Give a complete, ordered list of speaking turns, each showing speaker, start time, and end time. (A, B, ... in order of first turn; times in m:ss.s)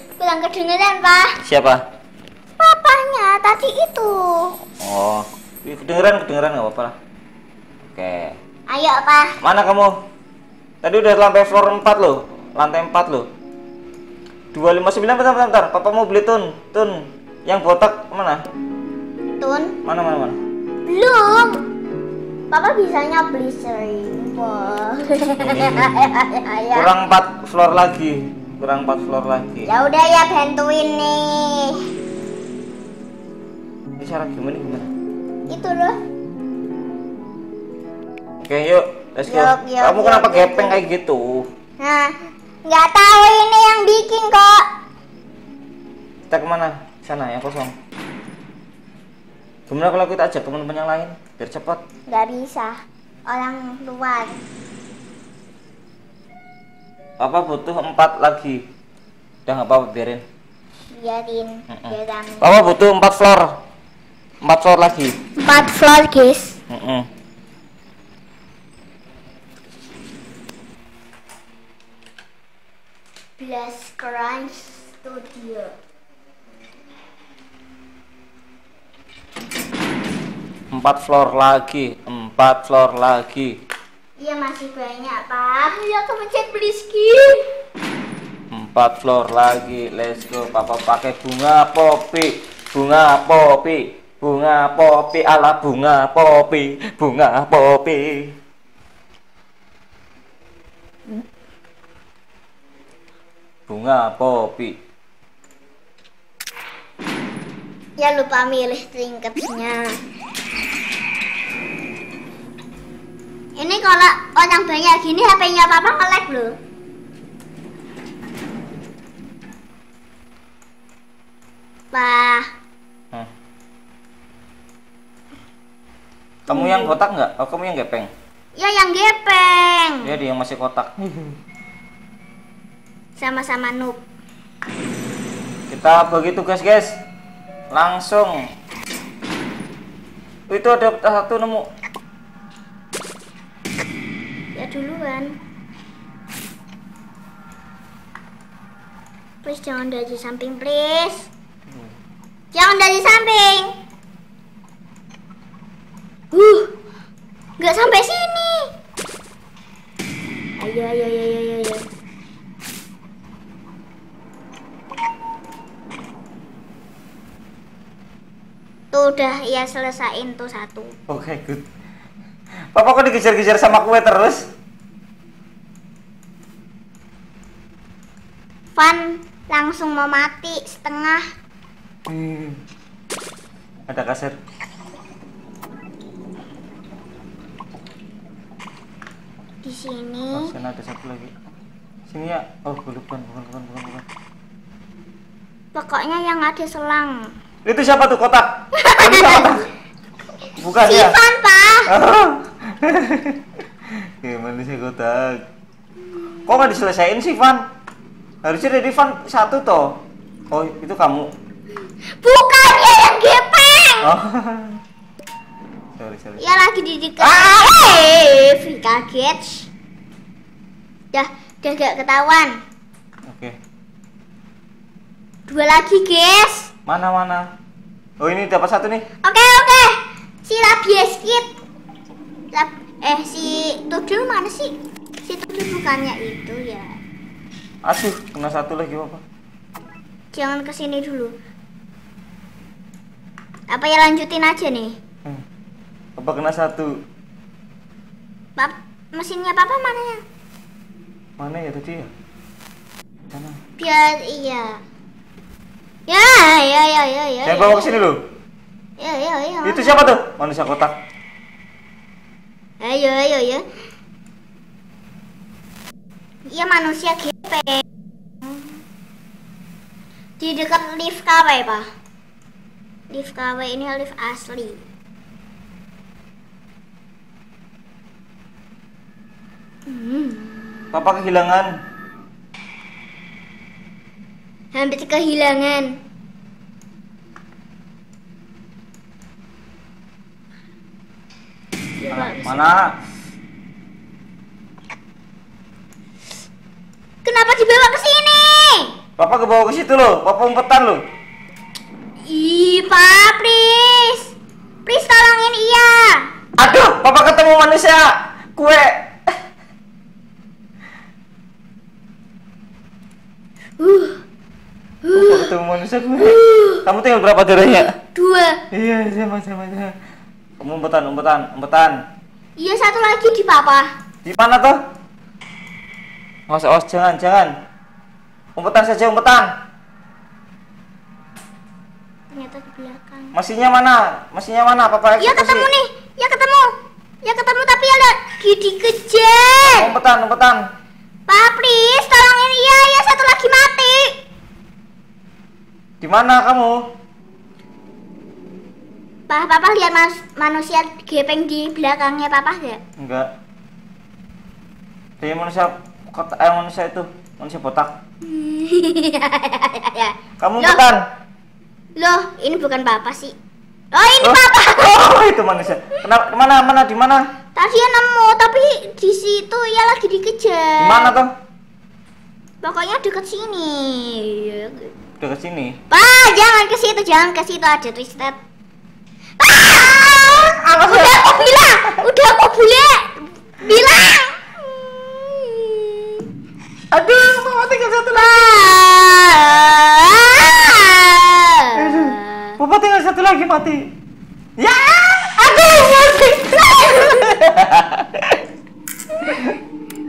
0:00.2-0:01.4 A
0:01.4-0:01.8 B
0:02.6-0:04.6 A
0:04.8-0:06.9 B
0:07.9-0:08.3 B
0:08.7-0:09.3 A
0:09.4-0:09.9 B
0:10.8-0:13.3 B
0:14.5-0:18.4 B
0:19.4-0:19.8 A
0:19.8-0:20.4 B
0:20.8-0:21.6 A
0:22.5-0:26.9 A
0:25.4-0:25.9 B
0:26.7-0:29.7 B
0:29.6-0:31.8 A
0:34.0-0:34.9 B
0:35.5-0:36.0 A
0:38.4-0:41.5 B
0:39.3-0:40.8 A
0:41.8-0:42.1 A
0:42.6-0:44.6 A
0:46.3-0:47.7 B
0:49.7-0:51.8 B
0:52.1-0:54.4 A
0:57.2-0:58.6 B
0:59.5-1:00.2 B
1:00.9-1:02.5 A
1:01.7-1:03.5 B
1:04.4-1:05.2 B
1:05.4-1:06.6 A
1:06.7-1:07.1 B
1:13.4-1:15.7 A
1:20.7-1:23.6 B
1:24.2-1:27.4 A
1:28.5-1:38.3 B
1:43.7-1:44.8 B
1:48.0-1:50.0 A
1:53.6-1:56.6 A
2:01.9-2:02.5 A
2:06.5-2:07.0 A
2:06.5-2:08.1 B
2:08.6-2:10.0 A
2:10.0-2:11.3 B
2:13.2-2:14.0 A
2:15.7-2:17.0 B
2:17.7-2:18.5 B
2:20.5-2:21.7 B
2:24.5-2:25.3 A
2:29.4-2:31.3 A
2:32.5-2:33.7 A
2:36.3-2:36.7 A
2:37.6-2:38.7 A
2:40.6-2:41.9 A
2:48.9-2:51.0 A
2:51.1-2:51.6 B
2:52.7-2:54.5 B
2:58.8-3:01.2 A
3:02.1-3:02.6 B
3:03.9-3:04.3 B
3:09.6-3:10.5 A
3:10.3-3:11.3 B
3:12.1-3:14.0 B
3:15.7-3:17.3 A
3:17.6-3:19.6 B
3:18.8-3:19.6 A
3:20.6-3:21.1 B
3:20.8-3:21.9 A
3:21.9-3:23.4 B
3:24.0-3:25.4 B
3:26.4-3:27.6 B
3:28.4-3:29.9 B
3:30.5-3:31.3 B
3:32.2-3:34.1 A
3:34.0-3:34.8 B
3:36.0-3:36.4 B
3:36.4-3:39.7 A
3:37.2-3:37.7 B
3:41.1-3:42.6 A
3:43.3-3:43.6 B
3:45.5-3:46.7 A
3:46.9-3:47.5 B
3:48.2-3:49.0 B
3:49.2-3:51.5 A
3:52.5-3:54.7 A
3:55.2-3:56.9 A
3:57.8-3:59.2 B
4:00.3-4:01.3 A
4:03.7-4:05.0 A
4:06.2-4:06.9 B
4:08.6-4:10.2 A
4:11.4-4:12.1 B
4:13.3-4:13.6 B
4:13.8-4:14.8 A
4:16.1-4:17.9 A
4:17.4-4:18.2 B
4:19.0-4:20.0 A
4:19.6-4:20.9 B
4:22.8-4:23.6 A
4:26.5-4:27.8 A
4:30.4-4:31.8 A
4:33.1-4:34.8 A
4:39.9-4:40.9 A
4:40.9-4:41.7 B
4:44.7-4:46.0 A
4:52.0-4:52.7 A
4:52.1-4:52.9 B
4:57.2-4:58.9 A
4:59.2-5:01.0 B
5:02.3-5:04.3 A
5:04.8-5:06.2 A
5:06.6-5:09.3 B
5:13.8-5:14.2 A
5:15.0-5:15.5 A
5:15.1-5:18.0 B
5:16.2-5:16.8 A
5:18.1-5:18.6 A
5:18.7-5:19.9 B
5:20.6-5:22.0 B
5:22.6-5:23.9 A
5:24.2-5:24.8 B
5:26.5-5:27.5 B
5:28.6-5:29.5 B
5:32.3-5:33.3 A
5:33.3-5:35.7 B
5:35.2-5:36.7 A
5:37.2-5:39.9 A
5:39.7-5:40.6 B
5:41.3-5:44.1 A
5:46.0-5:46.8 B
5:49.3-5:52.8 A
5:53.0-5:53.3 B
5:55.2-5:57.9 B
5:58.2-6:00.8 A
6:00.4-6:01.0 B
6:02.0-6:03.4 A
6:03.9-6:05.0 A
6:04.2-6:07.2 B
6:07.6-6:11.2 A
6:10.8-6:11.3 B
6:12.6-6:14.9 A
6:15.2-6:15.8 B
6:15.9-6:18.4 A
6:19.4-6:26.2 A
6:20.6-6:22.0 B
6:26.9-6:28.7 B
6:28.1-6:32.6 A
6:31.7-6:33.8 B
6:34.6-6:38.4 B
6:35.4-6:37.4 A
6:39.2-6:39.6 B